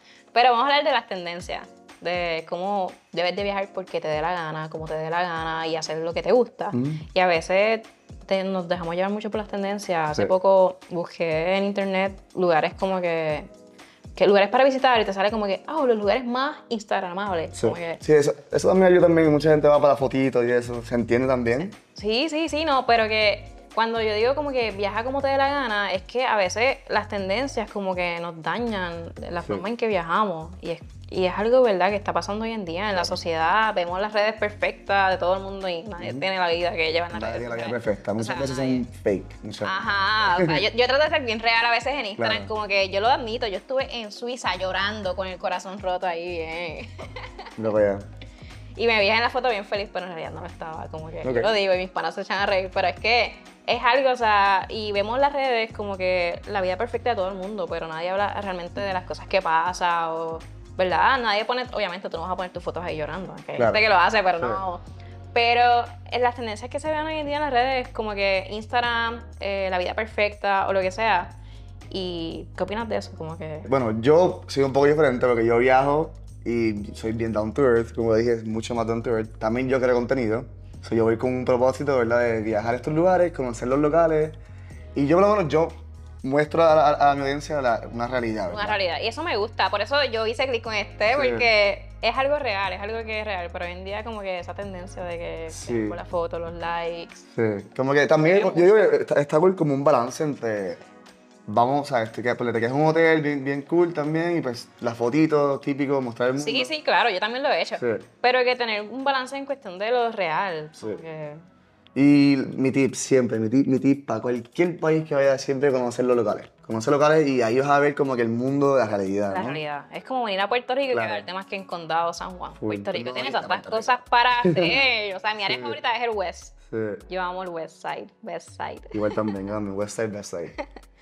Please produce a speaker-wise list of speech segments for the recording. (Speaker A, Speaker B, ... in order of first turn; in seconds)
Speaker A: 0.3-13.5, 14.2-18.0, 21.8-38.8, 39.6-47.5, 48.8-64.8, 65.3-71.4, 71.9-73.7, 88.5-97.2, 98.2-98.9, 106.3-111.4, 119.3-126.5, 127.1-129.3
Speaker B: 6.7-7.0, 17.5-21.8, 32.9-33.2, 36.0-36.2, 37.1-40.6, 42.2-42.5, 47.5-48.1, 51.2-51.5, 63.5-63.8, 64.3-64.6, 73.7-84.4, 84.9-88.8, 91.1-91.5, 95.5-96.0, 97.3-100.8, 101.5-106.7, 107.8-108.1, 111.9-119.6, 120.9-121.3, 122.5-124.8, 125.4-125.8, 126.7-127.0, 128.9-130.5